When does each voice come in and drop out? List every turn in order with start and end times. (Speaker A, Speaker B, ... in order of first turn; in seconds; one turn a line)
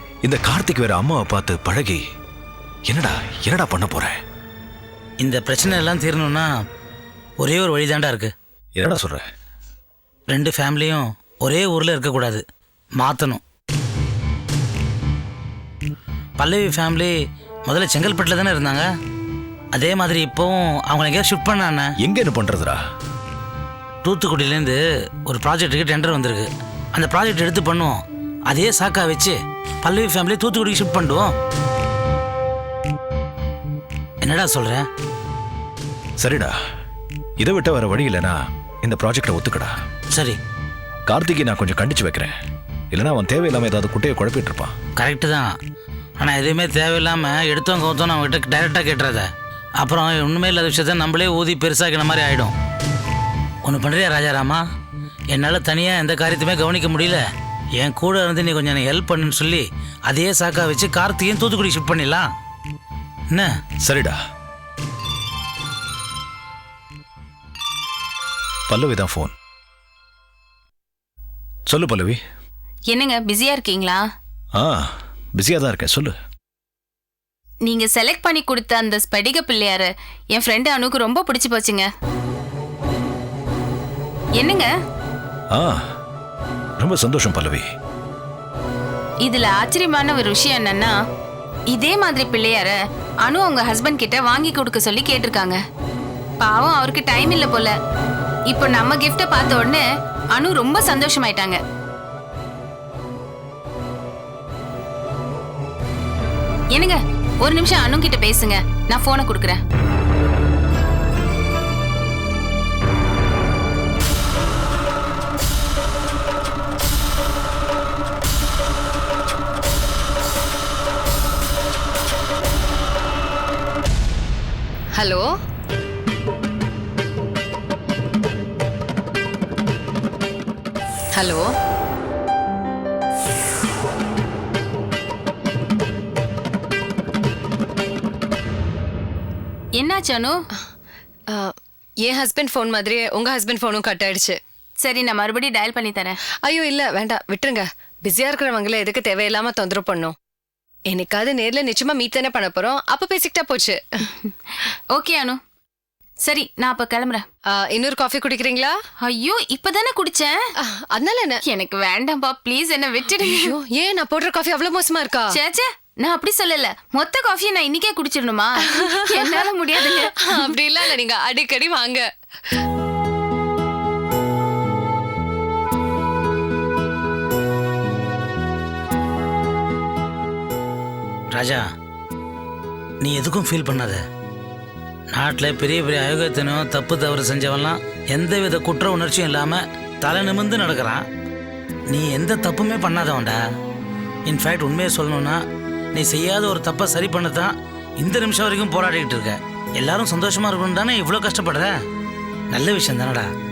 Speaker A: 0.2-2.0
Speaker A: 2.9-4.1
Speaker B: 5.2-6.5
Speaker B: 7.4-8.3
Speaker A: 8.8-9.2
Speaker B: 10.3-12.4
Speaker B: 13.0-13.4
Speaker B: 16.4-17.1
Speaker B: 17.6-18.9
Speaker B: 19.7-21.9
Speaker A: 22.0-22.8
Speaker B: 24.0-31.3
Speaker B: 34.2-34.9
Speaker A: 36.2-36.6
Speaker A: 37.4-39.8
Speaker B: 40.1-40.4
Speaker A: 41.1-42.3
Speaker A: 42.9-44.7
Speaker B: 45.0-45.6
Speaker B: 46.2-49.3
Speaker B: 49.8-52.5
Speaker B: 53.6-54.6
Speaker B: 55.3-57.2
Speaker B: 57.8-62.3
Speaker A: 63.8-64.2
Speaker A: 68.7-69.3
Speaker A: 71.7-72.2
Speaker C: 72.9-74.0
Speaker A: 74.6-76.2
Speaker C: 77.7-81.9
Speaker C: 84.4-84.7
Speaker A: 85.5-85.8
Speaker A: 86.8-87.7
Speaker C: 89.2-90.9
Speaker C: 91.7-92.7
Speaker C: 93.2-95.6
Speaker C: 96.4-97.7
Speaker C: 98.5-99.8
Speaker C: 100.4-101.6
Speaker C: 106.7-109.6
Speaker D: 125.0-125.3
Speaker D: 131.2-131.5
Speaker C: 139.8-140.3
Speaker D: 142.0-144.4
Speaker C: 144.8-146.2
Speaker D: 146.5-150.2
Speaker D: 150.9-154.1
Speaker C: 154.7-155.4
Speaker C: 156.2-157.2
Speaker D: 157.5-158.8
Speaker C: 159.0-160.4
Speaker D: 160.6-161.4
Speaker C: 161.5-163.6
Speaker D: 163.2-165.4
Speaker C: 165.3-170.9
Speaker D: 168.8-172.1
Speaker B: 181.3-181.6
Speaker B: 183.0-184.0
Speaker B: 185.1-191.0
Speaker B: 191.9-193.4
Speaker B: 194.2-195.4
Speaker B: 195.9-201.8
Speaker B: 202.5-203.3